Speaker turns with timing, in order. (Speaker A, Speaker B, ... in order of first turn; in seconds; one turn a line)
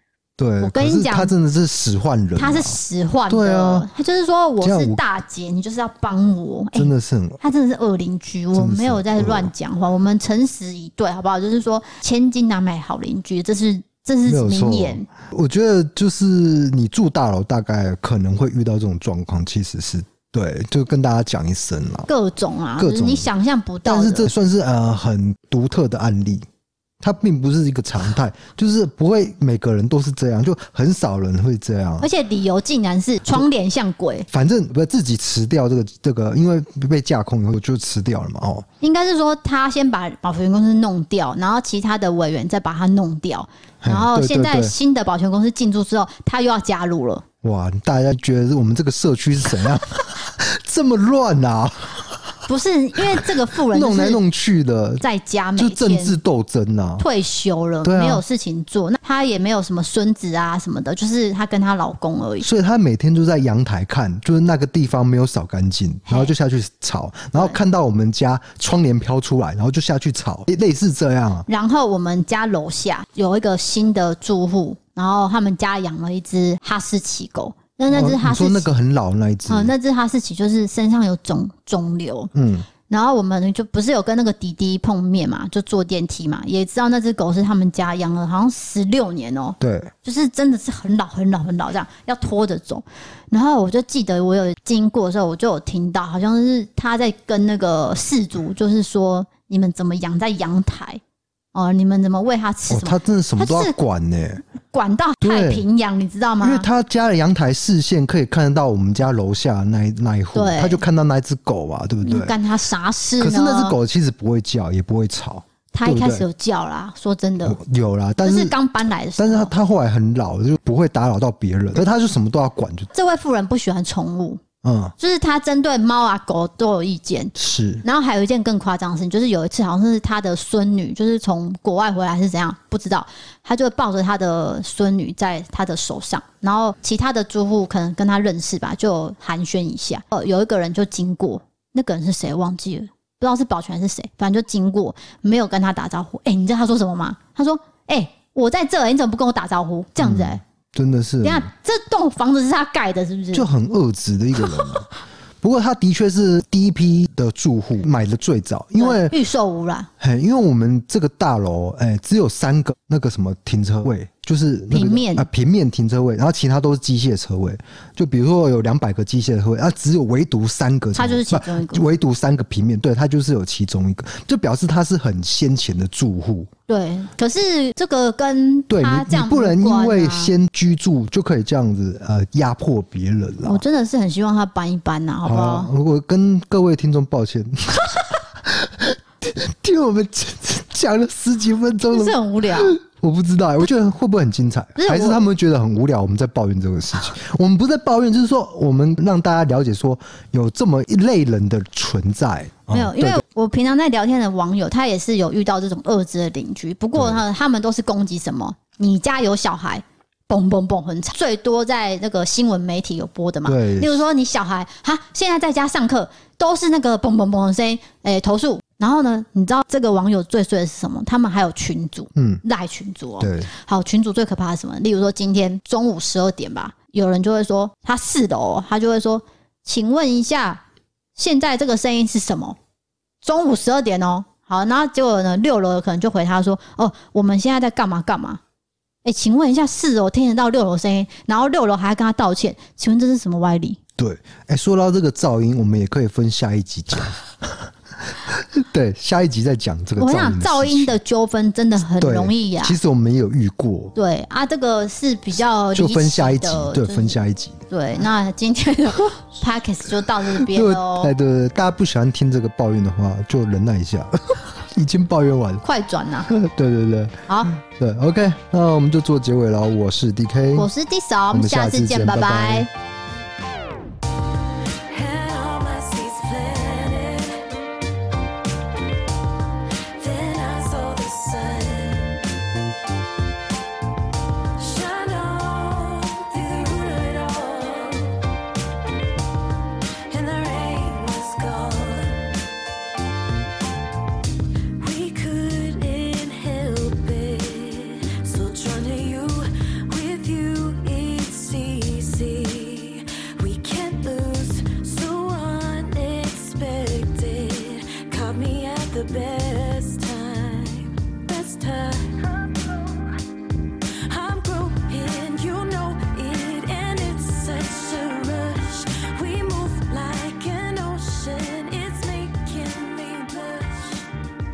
Speaker A: 0.4-2.8
Speaker B: 0.6-1.3
Speaker B: 2.4-15.1
Speaker A: 3.3-3.9
Speaker A: 4.6-5.0
Speaker A: 6.7-7.4
Speaker A: 8.6-9.5
Speaker A: 14.3-22.1
Speaker B: 22.1-24.3
Speaker A: 22.8-23.3
Speaker A: 23.8-26.4
Speaker A: 27.0-32.1
Speaker B: 32.0-34.3
Speaker A: 34.3-38.7
Speaker B: 38.8-47.2
Speaker A: 43.8-44.7
Speaker A: 47.4-52.4
Speaker B: 52.5-54.2
Speaker A: 53.1-55.0
Speaker B: 55.0-56.2
Speaker A: 55.5-57.0
Speaker B: 57.0-62.5
Speaker A: 57.8-58.2
Speaker A: 62.4-71.5
Speaker B: 71.5-78.7
Speaker A: 77.9-79.7
Speaker B: 79.5-82.3
Speaker A: 82.3-82.7
Speaker B: 82.9-101.0
Speaker A: 89.6-89.9
Speaker B: 101.5-103.7
Speaker A: 102.7-104.4
Speaker B: 104.6-106.7
Speaker A: 105.2-105.6
Speaker A: 106.4-112.4
Speaker B: 110.3-110.8
Speaker B: 112.0-113.7
Speaker A: 113.2-116.2
Speaker B: 115.7-117.6
Speaker A: 117.4-118.5
Speaker B: 118.2-119.5
Speaker A: 119.2-122.9
Speaker B: 122.9-124.4
Speaker A: 124.6-124.9
Speaker B: 125.0-150.4
Speaker A: 127.3-127.8
Speaker A: 150.0-151.5
Speaker B: 151.2-153.5
Speaker A: 153.3-154.9
Speaker A: 155.4-159.2
Speaker B: 158.8-159.9
Speaker A: 160.0-176.5
Speaker B: 164.7-165.3
Speaker B: 170.9-171.9
Speaker B: 176.7-180.3
Speaker A: 178.7-183.6
Speaker B: 183.4-185.7
Speaker A: 185.2-203.2
Speaker B: 191.9-192.8
Speaker B: 194.8-195.2
Speaker B: 202.7-230.6
Speaker A: 206.9-207.2
Speaker A: 213.4-214.0
Speaker A: 222.2-222.4
Speaker A: 223.2-223.5
Speaker B: 231.2-232.6
Speaker B: 233.2-238.4
Speaker B: 239.0-243.8
Speaker A: 244.0-251.0
Speaker B: 250.0-252.8
Speaker A: 251.9-253.9
Speaker B: 253.9-257.2
Speaker A: 255.7-257.6
Speaker B: 257.7-261.1
Speaker A: 260.3-265.6
Speaker B: 265.6-266.3
Speaker A: 266.3-270.7
Speaker B: 267.3-267.6
Speaker B: 270.5-272.7
Speaker A: 271.3-272.7
Speaker C: 274.9-277.6
Speaker C: 279.8-282.2
Speaker C: 284.6-288.2
Speaker C: 290.1-292.3
Speaker C: 294.8-313.1
Speaker C: 314.0-324.1